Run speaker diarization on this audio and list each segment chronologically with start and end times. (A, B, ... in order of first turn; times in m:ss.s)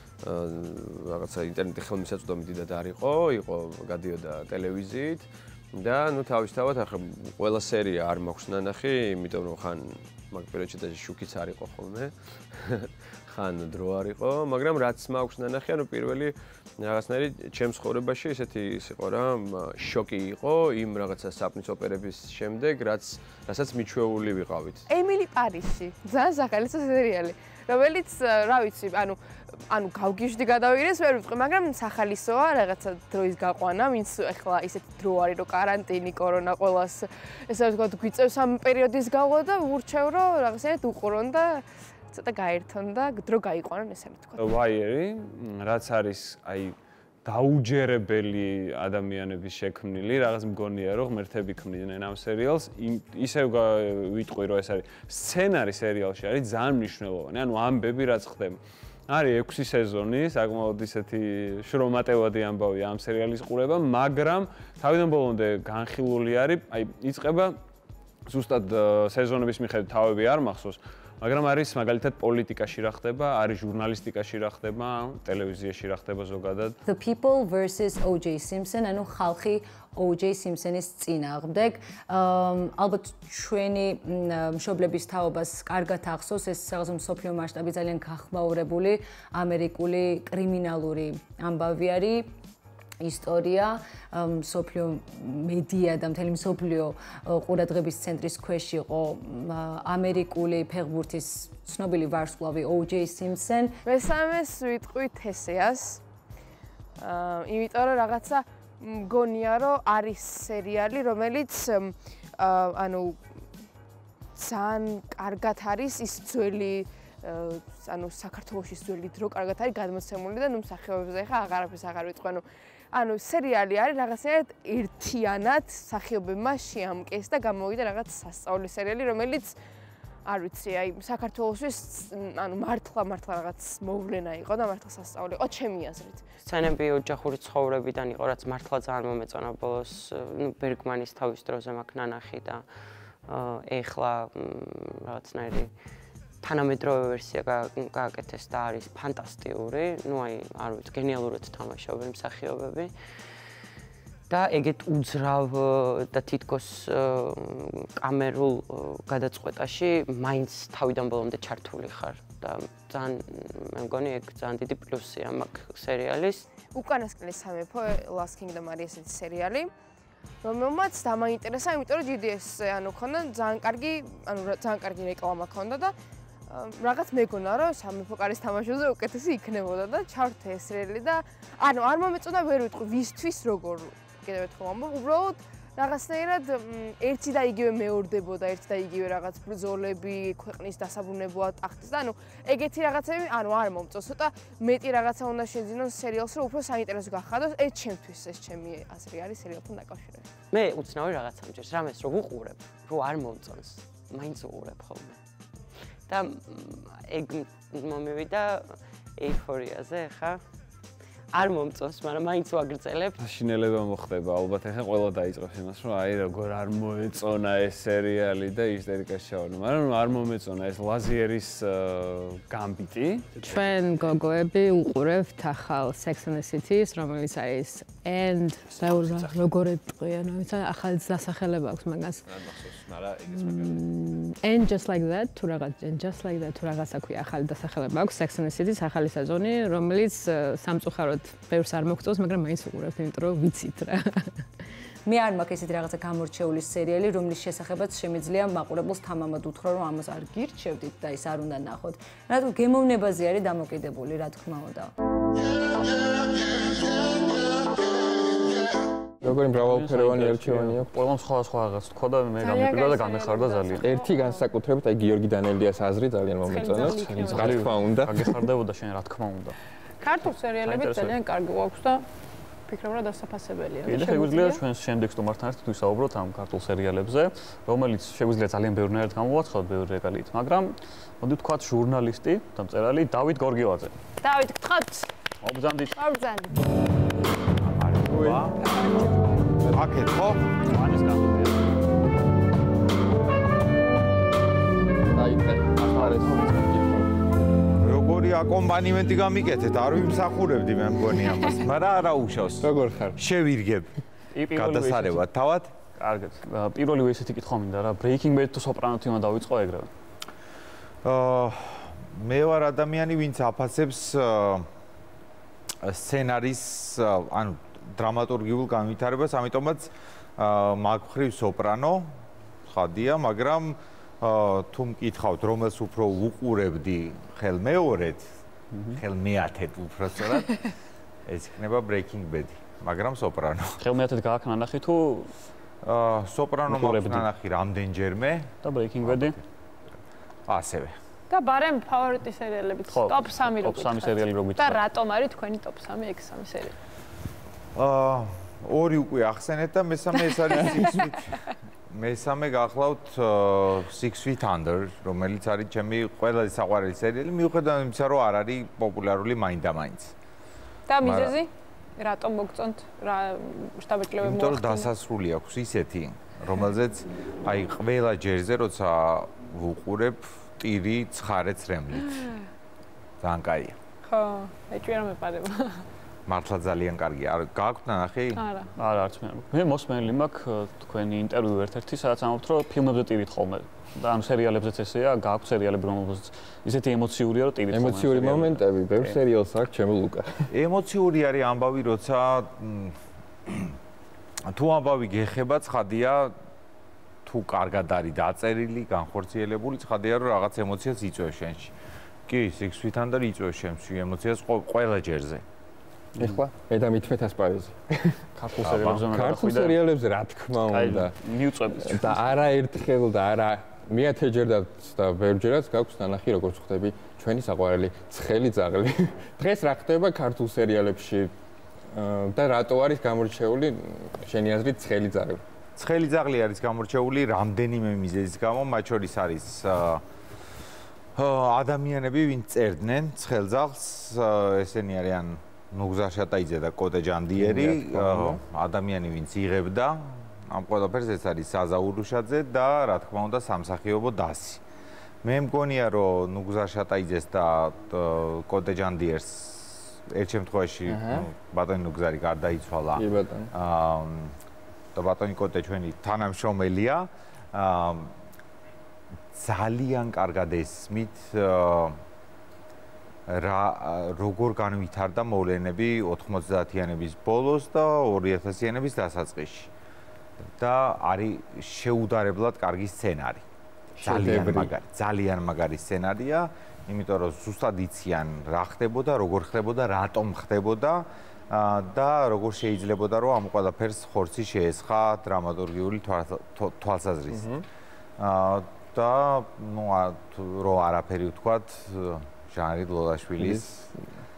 0:00.2-0:24.8 A
0:24.9-0:29.2 B
0:29.7-0:44.4 B
0:44.4-0:46.7 C
0:47.2-1:07.6 C
1:08.2-1:16.8 C
1:16.8-1:32.3 D
1:33.0-1:43.7 D
1:43.8-1:46.0 B
1:47.0-1:53.2 B
1:54.4-2:09.5 B
2:10.2-2:16.3 B
2:16.4-2:22.6 E
2:23.3-2:25.7 E
2:26.4-2:32.9 E
2:34.3-2:46.5 E
2:46.7-2:49.7 B
2:50.4-2:55.9 B
2:56.5-3:20.3 B
3:20.5-3:25.2 E
3:26.1-3:30.4 E
3:31.3-3:33.1 E
3:33.2-3:43.3 C
3:43.4-3:52.2 F
3:52.3-3:53.8 A
3:53.4-4:04.0 F
4:05.0-4:14.9 D
4:19.2-4:20.9 G
4:19.6-4:23.9 H
4:22.4-4:24.4 I
4:23.8-4:28.3 G
4:26.4-4:27.7 I
4:26.8-4:29.6 H
4:30.0-4:32.0 I
4:30.6-4:31.2 H
4:32.7-4:34.6 I
4:33.9-4:43.9 H
4:44.2-4:45.1 I
4:45.4-4:46.0 H
4:46.0-4:46.6 I
4:47.6-4:49.2 J
4:48.1-4:48.4 G
4:48.7-4:49.2 I
4:49.7-4:50.5 J
4:50.6-4:51.7 H
4:55.1-4:57.1 G
4:55.8-4:56.7 H
4:57.8-5:03.9 J
5:02.6-5:03.2 G
5:04.3-5:05.3 H
5:04.5-5:05.7 J
5:06.0-5:09.9 H
5:11.0-5:14.7 J
5:15.8-5:22.1 J
5:22.6-5:28.3 J
5:28.7-5:29.0 H
5:28.9-5:30.7 J
5:31.3-5:33.8 J
5:33.8-5:35.3 H
5:35.8-5:38.5 J
5:36.7-5:37.3 H
5:38.6-5:39.4 H
5:39.0-5:39.4 J
5:40.5-5:40.9 J
5:41.3-5:46.7 I
5:42.9-5:44.8 H
5:47.8-6:00.1 J
6:00.9-6:04.9 I
6:01.0-6:01.3 G
6:04.2-6:12.3 J
6:13.2-6:13.8 J
6:14.0-6:15.8 I
6:16.3-6:18.5 J
6:18.3-6:18.7 I
6:18.8-6:29.2 H
6:27.7-6:30.4 G
6:30.5-6:32.9 J
6:33.5-6:33.7 J
6:34.5-6:36.3 J
6:37.2-6:41.7 J
6:42.3-6:45.4 J
6:46.2-6:48.2 G
6:48.4-6:49.8 H
6:48.6-6:49.1 J
6:48.9-6:51.1 G
6:50.7-6:52.2 H
6:51.8-7:01.3 G
7:01.9-7:05.4 G
7:05.8-7:10.0 J
7:11.2-7:24.6 J
7:17.3-7:18.4 G
7:25.2-7:34.3 J
7:30.9-7:31.2 G
7:33.0-7:33.5 G
7:35.0-7:38.1 J
7:39.3-7:42.0 J
7:43.3-7:49.7 J
7:50.6-7:53.4 J
7:54.0-7:54.7 G
7:54.0-8:07.5 J
8:07.3-8:07.6 G
8:08.2-8:13.6 J
8:13.4-8:14.1 G